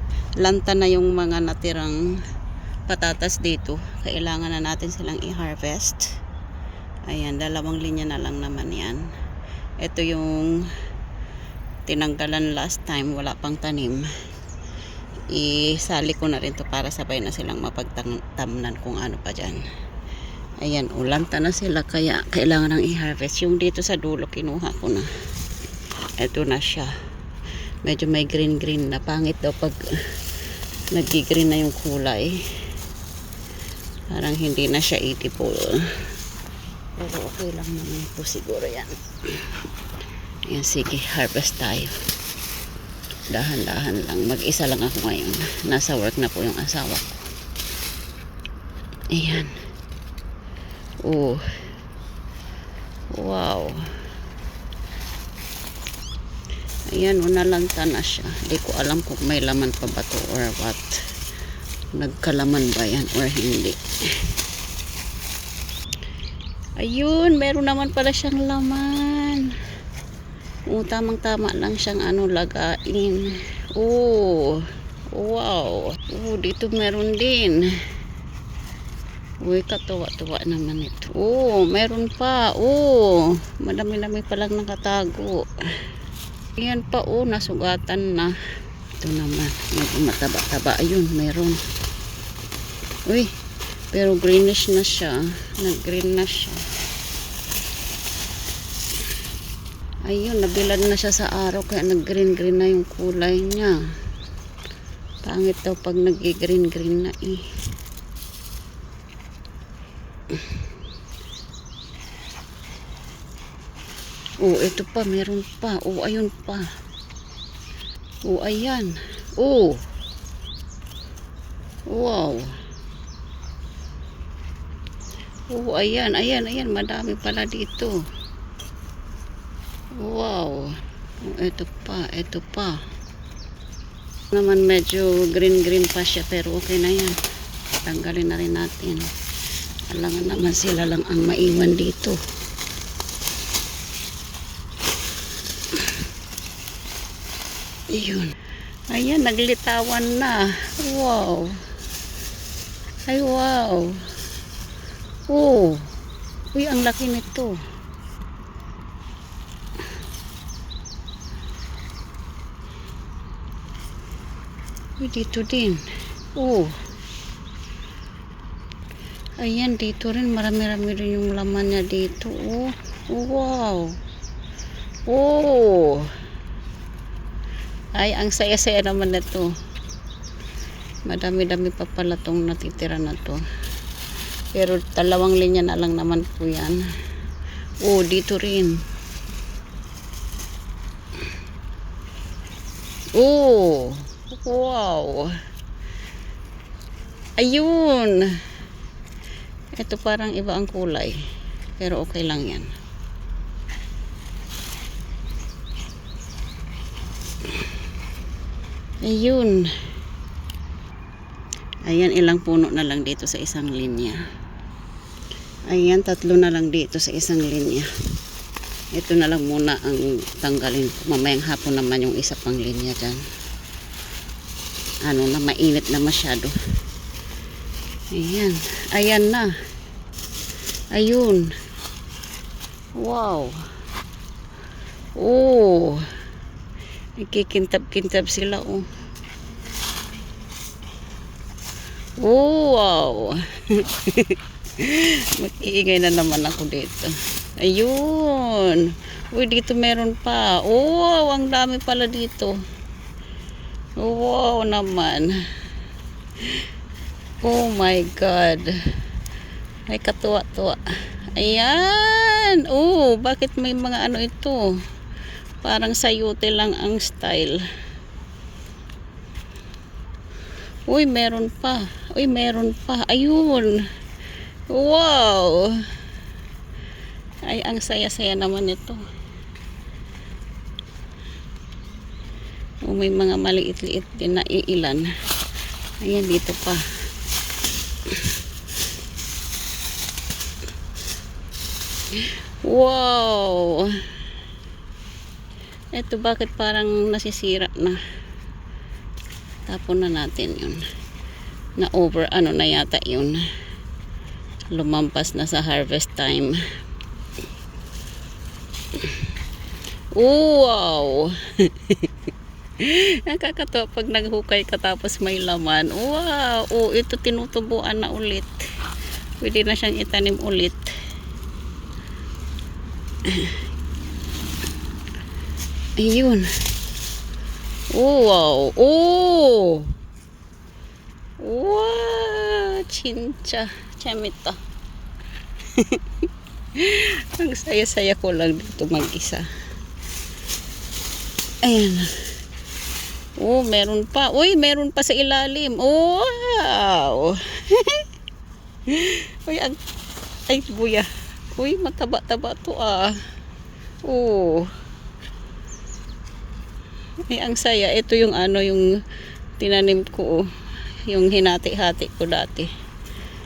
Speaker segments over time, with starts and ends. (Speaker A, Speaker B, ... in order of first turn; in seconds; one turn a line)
Speaker A: 0.4-2.0
Speaker A: 2.9-6.0
Speaker A: 7.0-9.1
Speaker A: 9.8-10.7
Speaker A: 11.8-14.1
Speaker A: 15.3-19.6
Speaker A: 20.6-25.1
Speaker A: 26.2-26.9
Speaker A: 27.8-30.2
Speaker A: 30.9-32.4
Speaker A: 34.1-36.0
Speaker A: 37.0-39.5
Speaker A: 40.5-41.9
Speaker A: 43.3-47.2
Speaker A: 49.1-49.5
Speaker A: 51.0-51.5
Speaker A: 53.1-53.8
Speaker A: 56.9-61.0
Speaker A: 61.9-64.3
Speaker A: 66.8-69.5
Speaker A: 70.7-77.8
Speaker A: 79.4-85.8
Speaker A: 86.6-88.3
Speaker A: 89.0-91.6
Speaker A: 93.9-96.6
Speaker A: 100.0-103.8
Speaker A: 105.2-107.4
Speaker A: 114.4-116.7
Speaker A: 118.2-119.8
Speaker A: 121.9-122.5
Speaker A: 125.5-128.0
Speaker A: 130.0-132.8
Speaker A: 134.3-137.2
Speaker A: 137.8-139.1
Speaker A: 139.9-142.2
Speaker A: 147.9-148.3
Speaker A: 148.9-151.6
Speaker A: 153.1-154.0
Speaker A: 155.3-155.9
Speaker A: 156.5-157.5
Speaker A: 165.0-165.8
Speaker A: 166.3-166.7
Speaker A: 169.4-174.0
Speaker A: 175.1-176.1
Speaker A: 177.9-179.5
Speaker A: 181.1-183.4
Speaker A: 184.5-186.8
Speaker A: 187.8-188.8
Speaker A: 193.2-195.4
Speaker A: 197.4-198.4
Speaker A: 199.8-201.2
Speaker A: 201.8-202.7
Speaker A: 209.0-209.7
Speaker A: 211.8-214.2
Speaker A: 215.7-217.9
Speaker A: 218.9-223.2
Speaker A: 225.0-226.6
Speaker A: 228.1-229.5
Speaker A: 230.9-231.5
Speaker A: 233.0-233.6
Speaker A: 235.2-236.0
Speaker A: 237.2-238.9
Speaker A: 242.2-252.6
Speaker A: 254.0-255.3
Speaker A: 257.4-258.8
Speaker A: 259.9-260.8
Speaker A: 261.4-264.6
Speaker A: 265.6-267.6
Speaker A: 270.9-273.8
Speaker A: 274.7-275.7
Speaker A: 277.5-279.0
Speaker A: 282.8-285.1
Speaker A: 286.0-286.8
Speaker A: 292.2-294.0
Speaker A: 295.9-298.0
Speaker A: 299.7-300.8
Speaker A: 301.8-303.4
Speaker A: 304.7-306.6
Speaker A: 310.1-312.1
Speaker A: 312.8-318.7
Speaker A: 319.4-320.9
Speaker A: 323.2-323.6
Speaker A: 326.0-326.5
Speaker A: 327.9-329.9
Speaker A: 331.4-334.6
Speaker A: 335.7-336.0
Speaker A: 336.7-339.4
Speaker A: 341.6-342.3
Speaker A: 343.4-348.0
Speaker A: 348.9-349.8
Speaker A: 350.5-353.1
Speaker A: 354.0-354.7
Speaker A: 357.3-358.9
Speaker A: 359.6-360.4
Speaker A: 361.1-362.7